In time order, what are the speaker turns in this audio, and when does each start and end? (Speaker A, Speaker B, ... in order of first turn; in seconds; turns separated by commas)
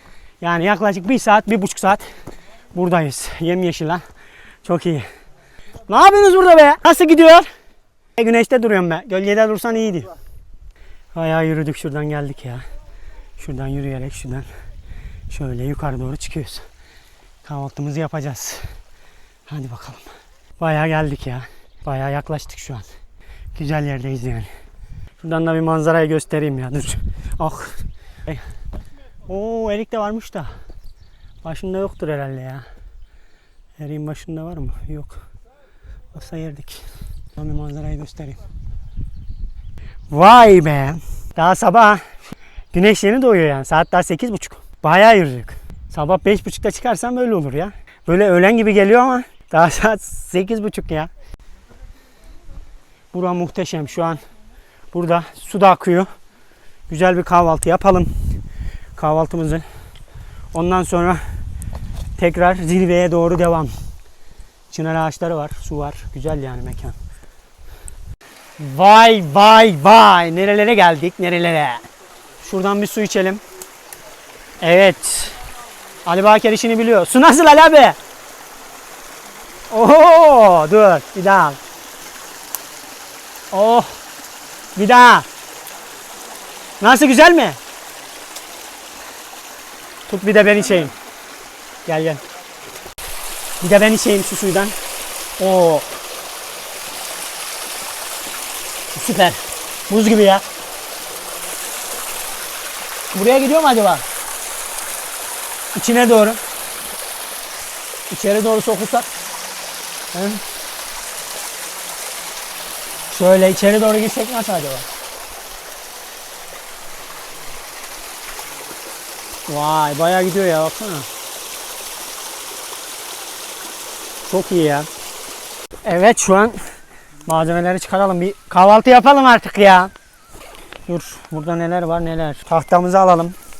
Speaker A: 0.4-2.1, Speaker A: 2.7-4.0, Speaker A: 4.6-5.1, Speaker A: 5.9-7.5, Speaker A: 8.2-10.1, Speaker A: 11.1-12.7, Speaker A: 13.4-14.5, Speaker A: 15.3-16.7, Speaker A: 17.4-18.7, Speaker A: 19.5-22.9, Speaker A: 23.6-24.5, Speaker A: 25.2-28.4, Speaker A: 29.3-30.5, Speaker A: 31.4-32.6, Speaker A: 33.8-35.2, Speaker A: 36.1-36.8, Speaker A: 37.4-38.4, Speaker A: 40.1-51.1, Speaker A: 53.1-54.2, Speaker A: 54.9-56.1, Speaker A: 56.9-58.1, Speaker A: 59.0-59.6, Speaker A: 60.5-61.2, Speaker A: 62.2-63.7, Speaker A: 64.7-67.0, Speaker A: 68.6-71.9, Speaker A: 72.4-73.4, Speaker A: 74.6-75.4, Speaker A: 76.1-78.0, Speaker A: 79.7-81.6, Speaker A: 83.5-84.0, Speaker A: 84.8-85.3, Speaker A: 86.8-87.6, Speaker A: 90.1-90.9, Speaker A: 91.9-92.2, Speaker A: 93.6-94.8, Speaker A: 95.4-95.9, Speaker A: 98.9-100.4, Speaker A: 103.1-104.0, Speaker A: 105.8-106.4, Speaker A: 108.1-109.1, Speaker A: 110.1-110.4, Speaker A: 113.1-114.9, Speaker A: 119.5-121.1, Speaker A: 124.3-124.9, Speaker A: 125.8-129.9, Speaker A: 130.9-133.4